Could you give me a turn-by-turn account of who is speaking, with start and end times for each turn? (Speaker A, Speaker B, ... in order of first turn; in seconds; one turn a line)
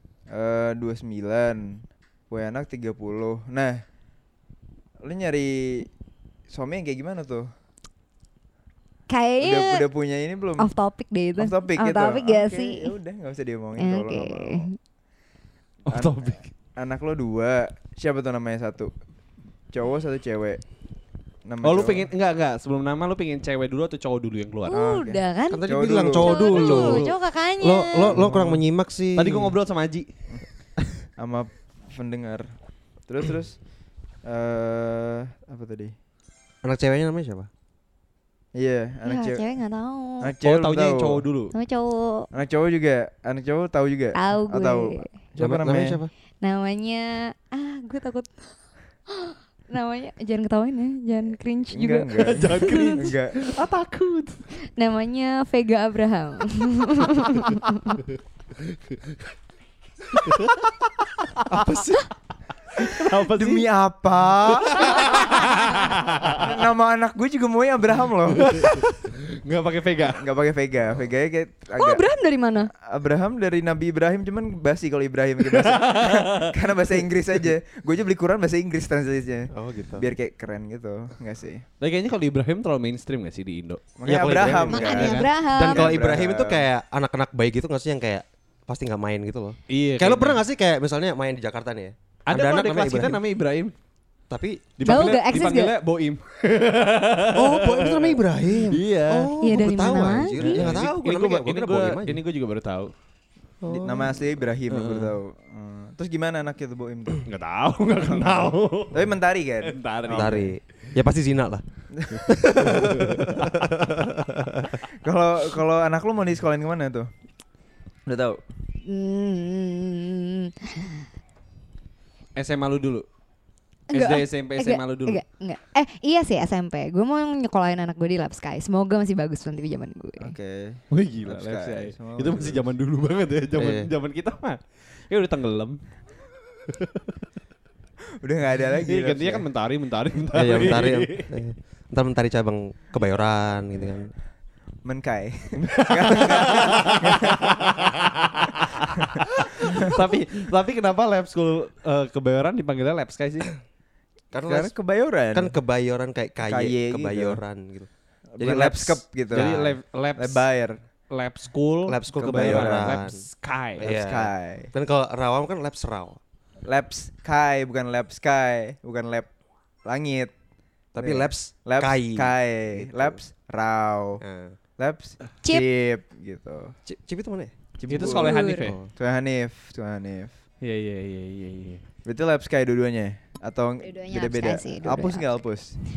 Speaker A: 0.3-3.8
Speaker A: 5.0-5.9
Speaker A: 6.5-7.5
Speaker B: 9.1-9.8
Speaker A: 9.4-10.7
Speaker B: 10.6-12.9
Speaker A: 11.3-14.7
Speaker B: 13.8-14.7
Speaker C: 15.9-16.5
Speaker A: 15.9-18.9
Speaker A: 19.7-20.6
Speaker A: 21.4-22.1
Speaker C: 21.6-24.8
Speaker B: 24.7-28.1
Speaker A: 24.7-26.8
Speaker D: 25.5-29.6
Speaker C: 26.7-27.1
Speaker A: 28.1-28.6
Speaker C: 29.1-30.1
Speaker A: 31.2-35.9
Speaker D: 36.6-37.5
Speaker A: 38.5-39.4
Speaker B: 39.0-40.3
Speaker A: 40.2-41.2
Speaker C: 40.4-41.5
Speaker B: 41.5-42.3
Speaker A: 42.3-46.0
Speaker B: 44.1-45.1
Speaker D: 45.4-46.1
Speaker B: 46.4-48.5
Speaker B: 49.1-53.0
Speaker A: 51.7-53.4
Speaker C: 52.2-54.4
Speaker B: 54.7-58.0
Speaker C: 58.6-59.3
Speaker C: 60.1-62.1
Speaker C: 62.8-63.7
Speaker A: 62.8-65.3
Speaker C: 64.7-66.4
Speaker B: 64.9-65.4
Speaker A: 66.3-68.8
Speaker C: 68.4-70.2
Speaker A: 70.0-72.0
Speaker B: 71.8-72.7
Speaker A: 72.8-81.7
Speaker C: 75.5-76.5
Speaker D: 79.5-80.1
Speaker C: 81.8-83.8
Speaker A: 84.0-86.6
Speaker D: 84.0-93.2
Speaker B: 84.7-85.8
Speaker C: 84.8-85.3
Speaker C: 89.7-90.4
Speaker C: 92.3-93.7
Speaker D: 94.3-95.0
Speaker C: 94.8-99.3
Speaker B: 94.8-95.7
Speaker D: 97.3-102.2
Speaker B: 99.4-100.4
Speaker A: 100.4-100.7
Speaker C: 100.4-102.9
Speaker D: 103.6-104.2
Speaker A: 103.7-107.3
Speaker C: 104.7-105.2
Speaker C: 107.2-110.5
Speaker A: 108.0-110.5
Speaker D: 110.1-111.6
Speaker A: 112.0-113.0
Speaker D: 112.2-114.7
Speaker C: 112.6-113.7
Speaker A: 115.0-117.1
Speaker A: 118.0-118.4
Speaker B: 118.8-121.0
Speaker C: 122.3-123.0
Speaker C: 123.9-125.2
Speaker B: 123.9-130.3
Speaker A: 130.2-132.6
Speaker C: 130.9-135.8
Speaker D: 133.6-133.9
Speaker C: 136.7-136.9
Speaker A: 138.2-139.5
Speaker C: 138.8-141.3
Speaker D: 140.3-144.1
Speaker A: 144.8-147.7
Speaker C: 145.9-153.5
Speaker A: 148.7-149.9
Speaker D: 154.3-154.7
Speaker A: 154.4-155.5
Speaker D: 155.3-159.5
Speaker A: 156.4-157.4
Speaker A: 158.3-160.8
Speaker C: 159.3-160.5
Speaker C: 161.1-163.8
Speaker D: 161.8-163.2
Speaker A: 162.1-162.9
Speaker D: 163.8-166.2
Speaker A: 163.8-164.7
Speaker A: 166.7-169.3
Speaker A: 169.8-170.3
Speaker D: 170.9-173.2
Speaker A: 171.0-174.2
Speaker D: 174.2-174.6
Speaker A: 174.8-176.7
Speaker D: 176.8-178.0
Speaker A: 177.8-178.3
Speaker C: 177.9-178.8
Speaker B: 178.1-178.7
Speaker D: 178.6-178.9
Speaker A: 178.9-180.3
Speaker C: 180.6-181.8
Speaker A: 182.0-185.8
Speaker B: 183.8-185.4